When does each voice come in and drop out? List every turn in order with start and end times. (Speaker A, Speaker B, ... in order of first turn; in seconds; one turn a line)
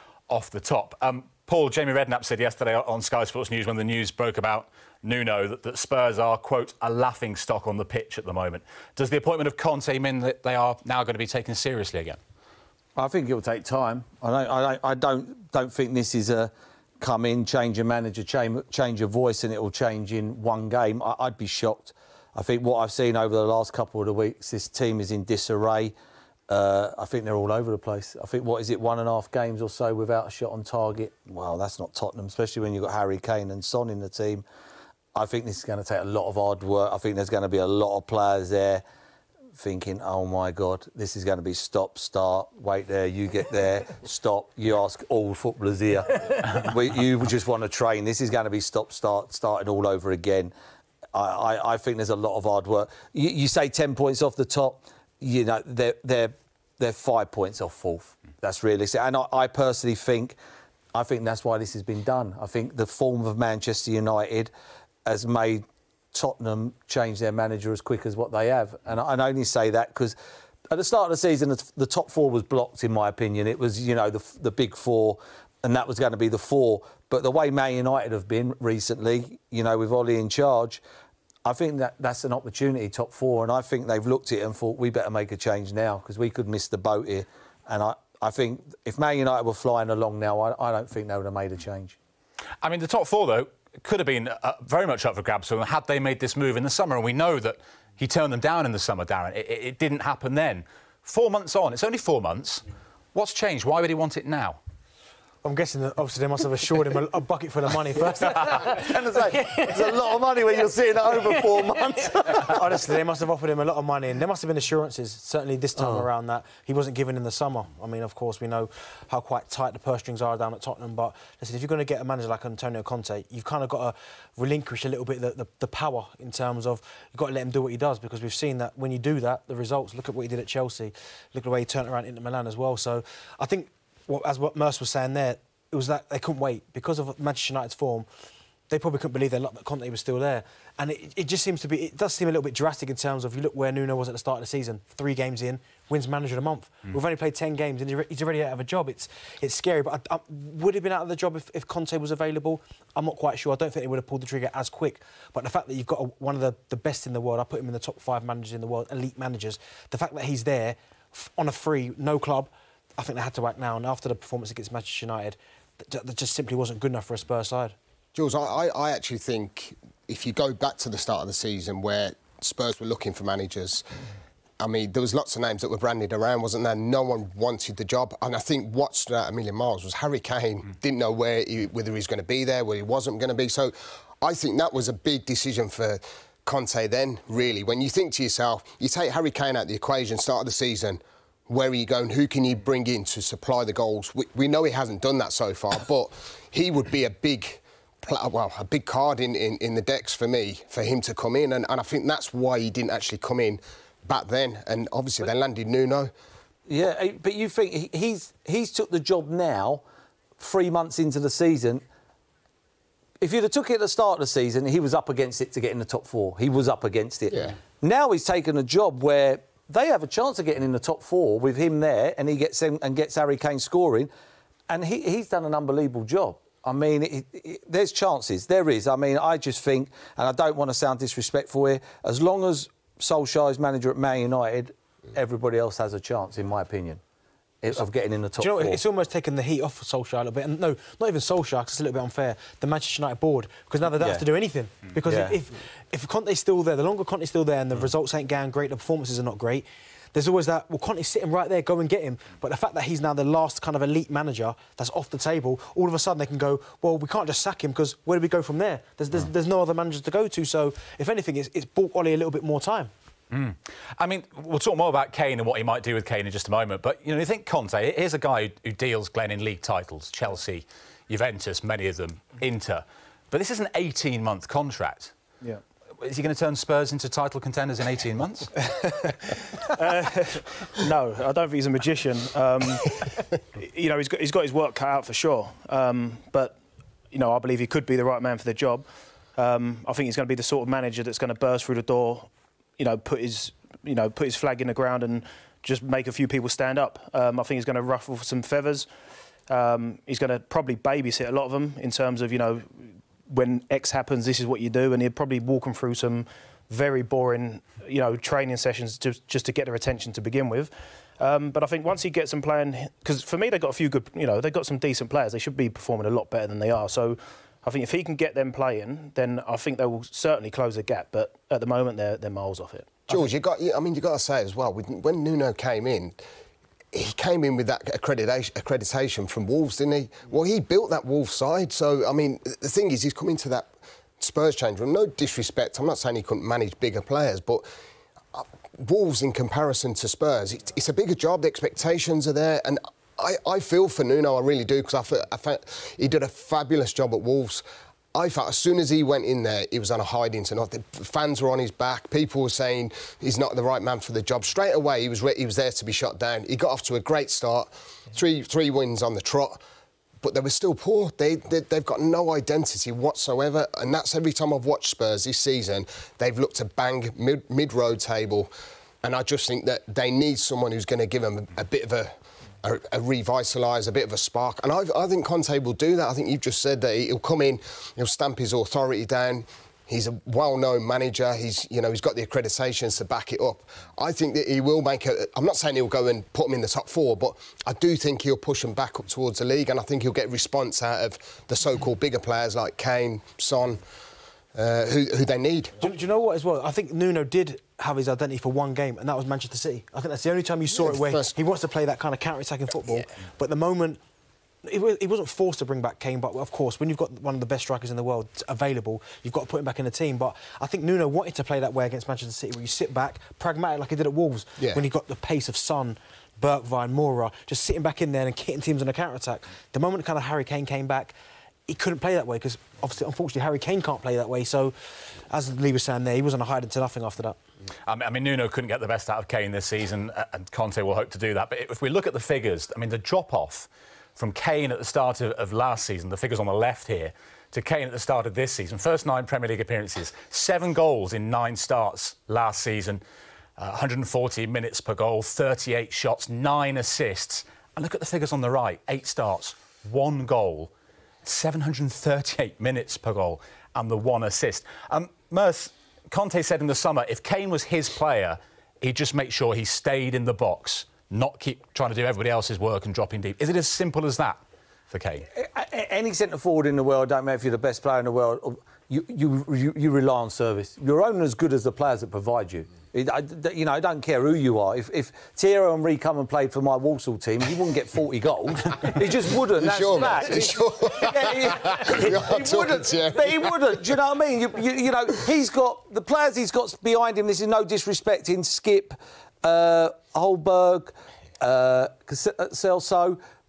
Speaker A: 0.3-12.2
Speaker B: 13.0-25.9
Speaker B: 26.5-34.5
Speaker B: 35.1-38.8
Speaker B: 39.5-50.5
Speaker B: 51.1-60.4
Speaker B: 60.9-64.5
Speaker B: 65.0-70.2
Speaker B: 70.7-80.8
Speaker B: 81.5-92.0
Speaker A: 92.6-104.6
Speaker C: 105.4-108.6
Speaker B: 108.2-112.8
Speaker C: 112.2-138.1
Speaker B: 115.8-116.1
Speaker C: 138.7-167.8
Speaker D: 168.2-173.9
Speaker D: 174.6-206.1
Speaker B: 206.7-209.8
Speaker B: 210.4-211.8
Speaker B: 213.2-224.1
Speaker B: 224.7-237.0
Speaker B: 237.6-238.8
Speaker C: 238.4-262.9
Speaker B: 244.0-244.2
Speaker B: 245.1-245.4
Speaker A: 263.3-275.1
Speaker A: 276.0-278.5
Speaker E: 278.8-286.6
Speaker E: 287.1-288.9
Speaker E: 289.4-298.9
Speaker E: 299.5-302.7
Speaker E: 303.3-323.2
Speaker D: 323.1-326.2
Speaker D: 326.9-337.7
Speaker D: 338.3-359.6
Speaker D: 360.2-368.5
Speaker D: 369.0-372.1
Speaker D: 372.6-393.8
Speaker D: 394.6-395.7
Speaker C: 395.8-404.0
Speaker D: 400.7-401.3
Speaker C: 404.6-421.1
Speaker C: 421.7-427.4
Speaker A: 427.9-443.0
Speaker A: 443.6-450.7
Speaker A: 451.2-464.4
Speaker A: 464.9-465.3
Speaker B: 465.4-493.2
Speaker D: 479.6-483.5